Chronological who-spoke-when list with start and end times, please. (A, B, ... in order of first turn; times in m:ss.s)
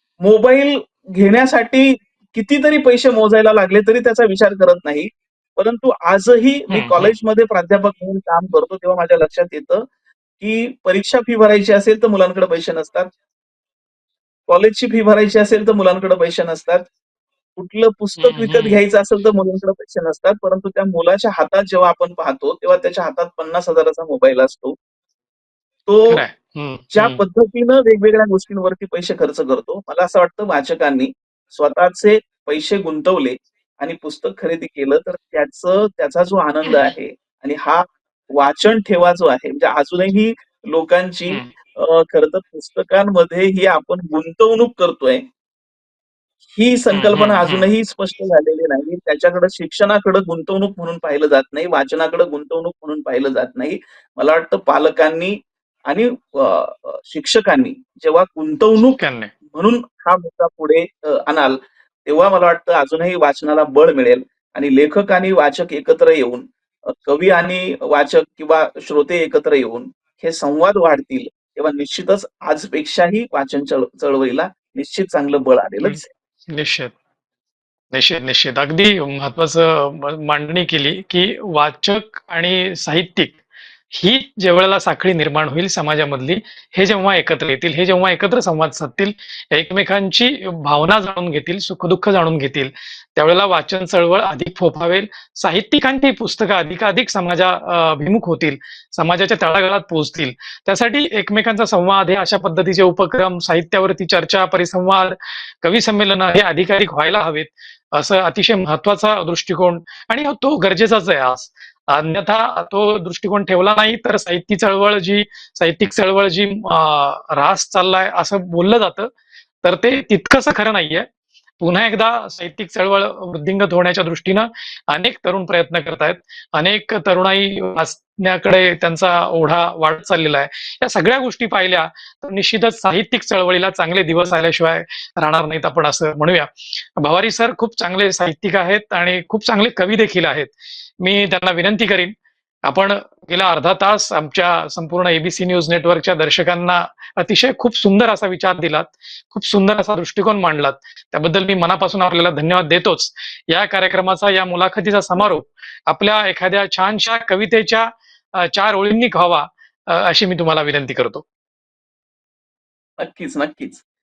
0:00.2-0:09.9 A
0:06.7-0:07.1 B
0:10.4-0:13.1 A
0:14.5-0:16.9 A
0:17.6-0:24.8 A
0:18.2-0:18.8 B
0:25.9-0:26.2 A
0:26.1-0:27.2 B
0:26.9-0:45.2 A
0:46.5-1:16.1 A
0:46.9-0:47.7 B
0:59.0-0:59.3 B
1:15.8-1:16.9 B
1:17.9-1:23.4 B
1:23.9-1:59.1 B
1:59.6-2:01.0 B
2:01.6-2:22.1 B
2:22.7-2:41.2 B
2:43.0-2:43.8 A